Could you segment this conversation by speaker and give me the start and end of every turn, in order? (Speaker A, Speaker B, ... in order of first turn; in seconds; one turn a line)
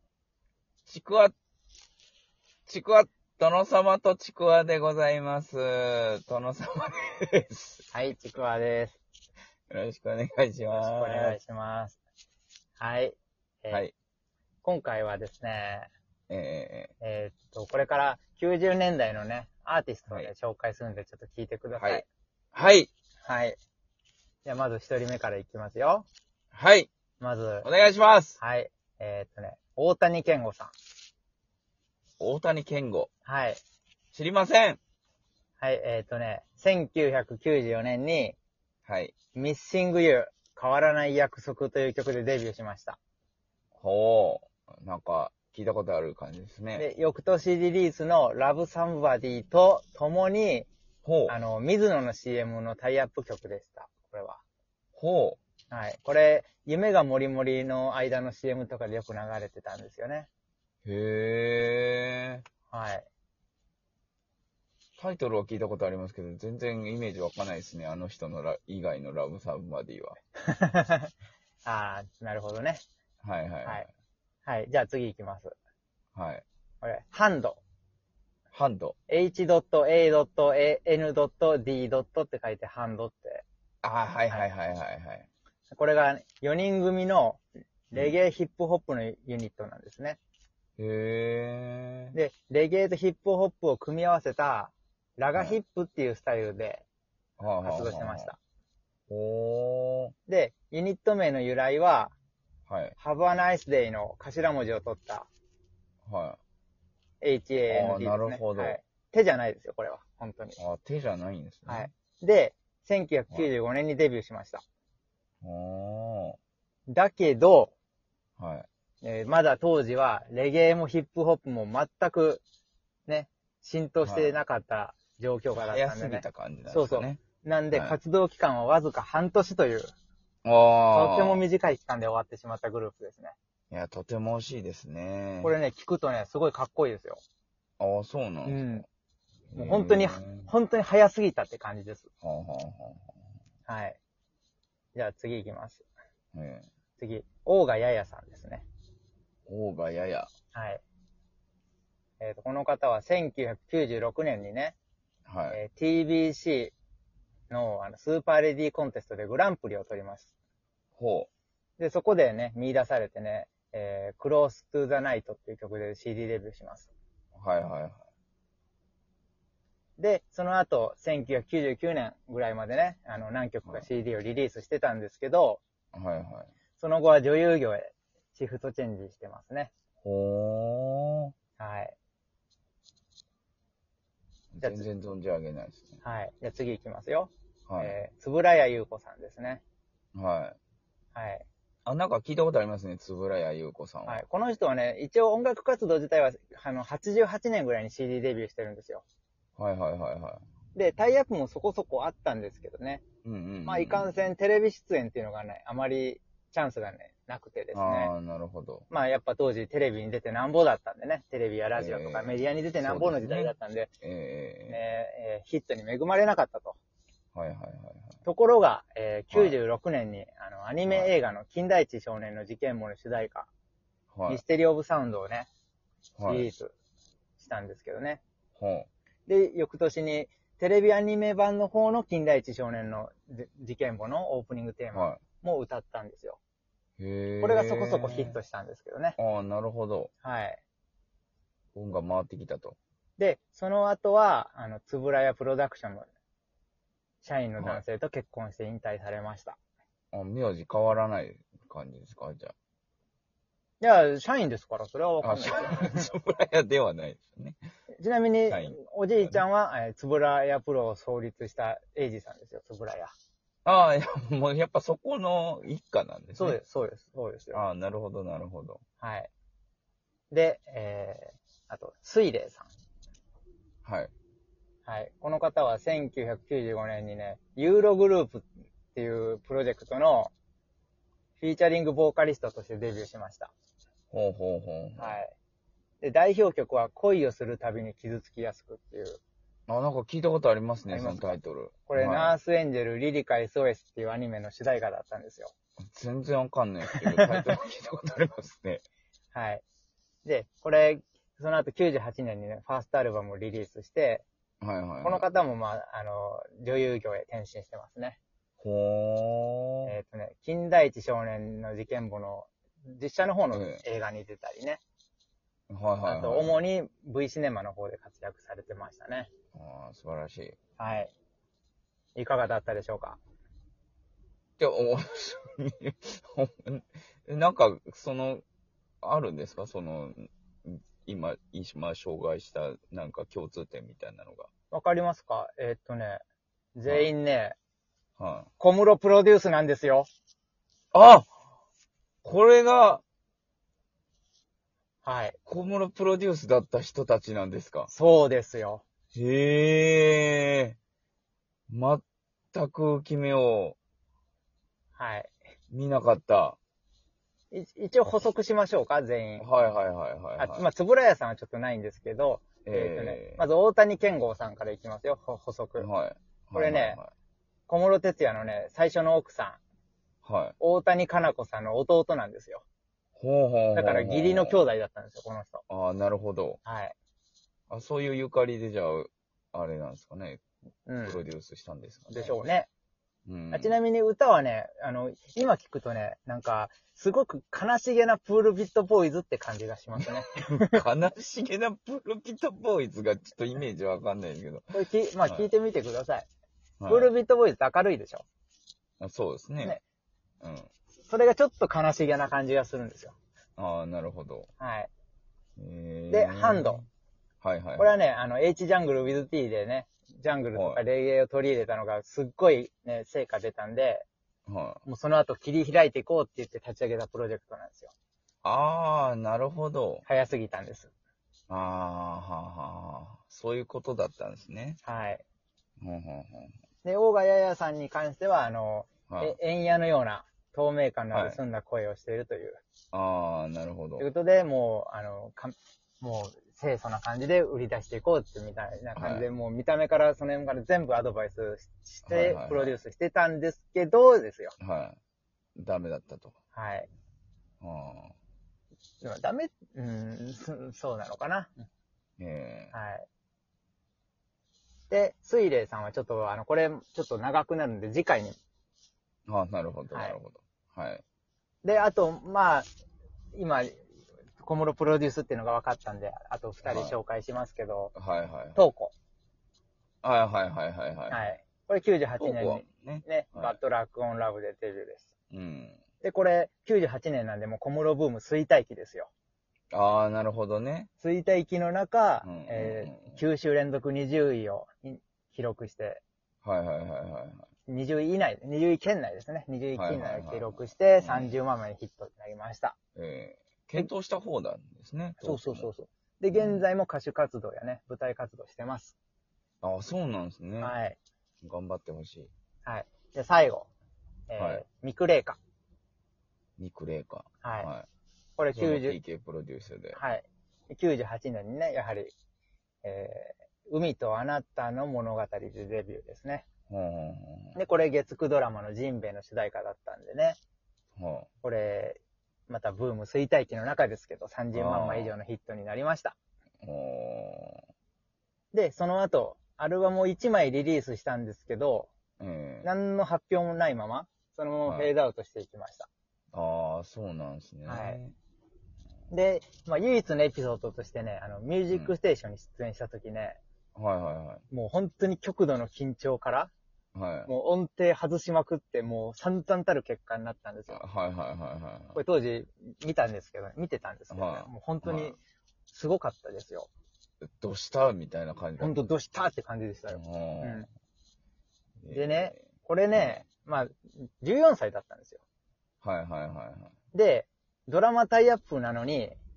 Speaker A: 0.9-1.3
Speaker A: 2.6-7.8
Speaker B: 7.9-9.0
Speaker A: 9.7-11.4
Speaker B: 10.7-12.0
Speaker B: 12.8-13.8
Speaker B: 14.6-15.9
Speaker A: 16.3-16.9
Speaker B: 17.0-22.1
Speaker A: 21.8-22.9
Speaker B: 23.2-23.6
Speaker B: 24.4-26.1
Speaker A: 26.5-26.9
Speaker B: 27.2-27.7
Speaker A: 27.6-28.4
Speaker B: 28.4-30.7
Speaker A: 32.2-33.1
Speaker B: 33.2-33.6
Speaker A: 34.1-34.8
Speaker B: 35.6-38.4
Speaker A: 38.9-39.1
Speaker B: 39.3-43.0
Speaker A: 43.8-46.9
Speaker B: 46.8-50.7
Speaker A: 51.0-51.3
Speaker B: 51.3-54.4
Speaker A: 54.9-55.4
Speaker B: 55.7-60.3
Speaker A: 60.8-62.4
Speaker B: 62.7-63.1
Speaker A: 65.0-70.2
Speaker B: 70.4-71.1
Speaker B: 71.6-72.8
Speaker A: 73.2-73.9
Speaker B: 74.4-75.5
Speaker A: 76.1-76.4
Speaker B: 76.8-77.6
Speaker A: 78.5-79.0
Speaker B: 79.1-83.4
Speaker A: 83.8-85.3
Speaker B: 85.7-90.2
Speaker A: 90.8-92.2
Speaker B: 92.1-96.8
Speaker A: 95.3-95.6
Speaker A: 97.4-98.3
Speaker B: 97.6-98.4
Speaker A: 99.1-100.1
Speaker B: 100.3-102.1
Speaker A: 102.7-103.0
Speaker B: 103.0-105.3
Speaker A: 106.0-106.4
Speaker B: 107.2-110.6
Speaker A: 107.7-108.8
Speaker A: 110.6-111.9
Speaker B: 111.7-114.6
Speaker A: 115.4-116.4
Speaker B: 116.9-117.7
Speaker A: 118.4-118.7
Speaker B: 119.0-122.4
Speaker B: 123.1-129.9
Speaker A: 124.0-124.4
Speaker A: 125.5-127.2
Speaker A: 127.7-128.0
Speaker A: 130.4-131.4
Speaker B: 130.9-133.3
Speaker A: 133.7-135.5
Speaker B: 135.4-137.2
Speaker A: 137.8-138.8
Speaker B: 138.4-138.8
Speaker A: 139.5-140.5
Speaker B: 139.5-142.1
Speaker A: 142.2-143.1
Speaker B: 143.7-144.0
Speaker B: 144.9-145.8
Speaker A: 146.3-146.7
Speaker B: 147.0-148.7
Speaker A: 149.5-150.3
Speaker B: 150.5-150.8
Speaker B: 152.2-154.8
Speaker A: 155.2-155.6
Speaker B: 155.5-156.7
Speaker B: 157.5-160.3
Speaker A: 161.0-161.3
Speaker B: 161.8-166.9
Speaker A: 167.3-168.0
Speaker B: 170.0-175.6
Speaker A: 175.9-176.5
Speaker B: 176.8-179.7
Speaker A: 180.0-181.3
Speaker B: 181.6-181.9
Speaker A: 184.5-186.0
Speaker B: 184.6-184.9
Speaker B: 186.0-189.6
Speaker A: 187.7-188.0
Speaker A: 190.1-190.6
Speaker B: 191.1-191.4
Speaker A: 191.8-194.2
Speaker B: 194.1-199.0
Speaker A: 199.6-200.4
Speaker B: 200.7-203.0
Speaker A: 203.2-204.3
Speaker B: 203.7-208.1
Speaker A: 207.7-208.9
Speaker B: 208.9-213.9
Speaker A: 211.7-214.8
Speaker B: 214.7-216.8
Speaker A: 217.3-218.2
Speaker B: 218.2-223.5
Speaker A: 219.3-219.6
Speaker A: 220.8-221.1
Speaker A: 224.1-224.4
Speaker B: 224.3-225.5
Speaker A: 226.2-226.5
Speaker B: 226.2-226.7
Speaker B: 227.4-228.2
Speaker A: 228.6-228.9
Speaker B: 229.3-236.4
Speaker A: 234.9-235.2
Speaker A: 237.0-238.4
Speaker B: 237.4-239.2
Speaker A: 239.2-240.1
Speaker B: 240.2-240.6
Speaker A: 241.7-242.8
Speaker B: 243.2-246.1
Speaker B: 247.2-249.6
Speaker A: 250.1-252.5
Speaker B: 253.8-256.1
Speaker A: 255.2-257.6
Speaker B: 258.0-263.1
Speaker A: 258.5-259.4
Speaker A: 263.6-266.6
Speaker B: 266.4-267.6
Speaker A: 267.5-268.8
Speaker B: 269.0-269.3
Speaker B: 270.3-272.7
Speaker A: 273.8-274.1
Speaker B: 274.9-280.3
Speaker B: 281.4-283.5
Speaker A: 284.1-285.2
Speaker B: 285.0-285.3
Speaker B: 286.0-289.2
Speaker A: 289.7-292.4
Speaker B: 290.9-295.5
Speaker A: 295.9-298.8
Speaker B: 296.9-297.3
Speaker B: 299.3-299.6
Speaker B: 300.2-304.2
Speaker A: 304.6-305.3
Speaker B: 305.0-308.2
Speaker A: 308.6-309.9
Speaker B: 309.8-314.8
Speaker A: 313.5-313.8
Speaker A: 315.7-316.6
Speaker B: 316.0-319.3
Speaker A: 319.5-320.6
Speaker B: 320.8-321.1
Speaker B: 322.1-323.2
Speaker A: 324.6-328.4
Speaker A: 329.0-334.5
Speaker B: 334.7-336.2
Speaker B: 336.8-337.6
Speaker A: 338.2-338.5
Speaker B: 338.6-340.1
Speaker A: 340.9-341.3
Speaker A: 342.2-343.0
Speaker B: 345.0-345.4
Speaker A: 345.4-347.9
Speaker B: 347.9-348.8
Speaker A: 349.1-350.8
Speaker A: 351.7-353.8
Speaker B: 355.0-355.3
Speaker A: 355.7-356.6
Speaker B: 357.5-359.4
Speaker A: 359.4-360.7
Speaker B: 360.4-365.9
Speaker A: 362.6-363.4
Speaker A: 365.8-367.1
Speaker B: 366.5-367.0
Speaker B: 367.7-369.6
Speaker A: 370.2-370.6
Speaker B: 370.6-372.6
Speaker A: 373.1-374.6
Speaker B: 373.7-375.6
Speaker A: 375.7-376.6
Speaker B: 376.6-376.9
Speaker A: 377.7-380.4
Speaker B: 380.9-381.2
Speaker A: 381.0-382.4
Speaker B: 382.1-382.7
Speaker A: 383.2-383.8
Speaker B: 383.5-390.8
Speaker A: 390.6-395.5
Speaker B: 394.7-396.3
Speaker A: 396.8-397.1
Speaker B: 396.9-398.2
Speaker A: 399.0-399.8
Speaker A: 400.4-400.7
Speaker B: 401.0-403.1
Speaker A: 403.6-404.5
Speaker B: 404.6-404.9
Speaker A: 405.6-406.9
Speaker B: 406.1-406.8
Speaker A: 407.4-407.9
Speaker B: 407.8-414.1
Speaker A: 410.5-410.8
Speaker A: 414.5-414.8
Speaker B: 414.9-417.9
Speaker A: 418.4-420.0
Speaker B: 420.1-420.9
Speaker A: 421.5-424.8
Speaker B: 424.8-425.2
Speaker A: 425.8-426.5
Speaker B: 426.8-432.6
Speaker A: 429.1-429.4
Speaker A: 431.1-431.4
Speaker A: 432.9-434.1
Speaker B: 434.0-444.5
Speaker A: 438.9-439.3
Speaker A: 442.1-442.8
Speaker A: 444.6-445.0
Speaker A: 445.6-446.3
Speaker B: 446.5-446.9
Speaker A: 447.6-448.1
Speaker B: 449.0-451.5
Speaker A: 452.2-452.7
Speaker B: 452.7-453.1
Speaker B: 454.9-458.4
Speaker A: 459.3-461.0
Speaker B: 459.9-460.2
Speaker B: 461.6-462.7
Speaker B: 463.3-463.8
Speaker B: 464.4-467.9
Speaker A: 466.6-467.0
Speaker A: 467.9-468.6
Speaker B: 468.5-468.9
Speaker A: 470.0-471.2
Speaker B: 471.1-475.1
Speaker A: 472.2-473.6
Speaker A: 475.3-475.8
Speaker B: 476.0-479.1
Speaker A: 479.7-480.9
Speaker B: 481.0-486.0
Speaker A: 482.2-483.2
Speaker A: 486.4-487.5
Speaker B: 487.7-492.8
Speaker A: 489.7-491.4
Speaker A: 492.9-495.7
Speaker B: 495.2-498.9
Speaker A: 496.3-496.6
Speaker A: 499.6-500.7
Speaker B: 500.6-501.0
Speaker A: 501.4-502.3
Speaker B: 502.6-503.7
Speaker B: 504.3-505.4
Speaker A: 504.4-504.6
Speaker A: 506.6-507.9
Speaker B: 507.4-507.7
Speaker B: 508.4-509.0
Speaker A: 508.5-510.0
Speaker B: 509.9-512.1
Speaker B: 512.8-516.5
Speaker A: 516.7-517.6
Speaker B: 517.5-520.4
Speaker A: 521.0-521.3
Speaker B: 521.4-526.1
Speaker A: 524.5-525.1
Speaker A: 526.6-527.6
Speaker B: 528.5-531.9
Speaker A: 532.2-532.7
Speaker B: 532.6-535.9
Speaker A: 534.6-534.9
Speaker A: 536.3-538.1
Speaker B: 537.6-538.0
Speaker B: 539.1-543.4
Speaker A: 543.7-544.4
Speaker B: 544.5-546.5
Speaker A: 546.9-547.3
Speaker B: 547.3-550.8
Speaker A: 550.7-552.0
Speaker B: 551.9-555.2
Speaker A: 554.1-555.1
Speaker B: 555.7-556.7
Speaker A: 557.2-558.8
Speaker B: 558.6-560.7
Speaker A: 559.9-560.6
Speaker A: 561.8-562.4
Speaker B: 561.9-565.2
Speaker A: 562.9-563.2
Speaker A: 565.8-566.7
Speaker B: 566.9-569.2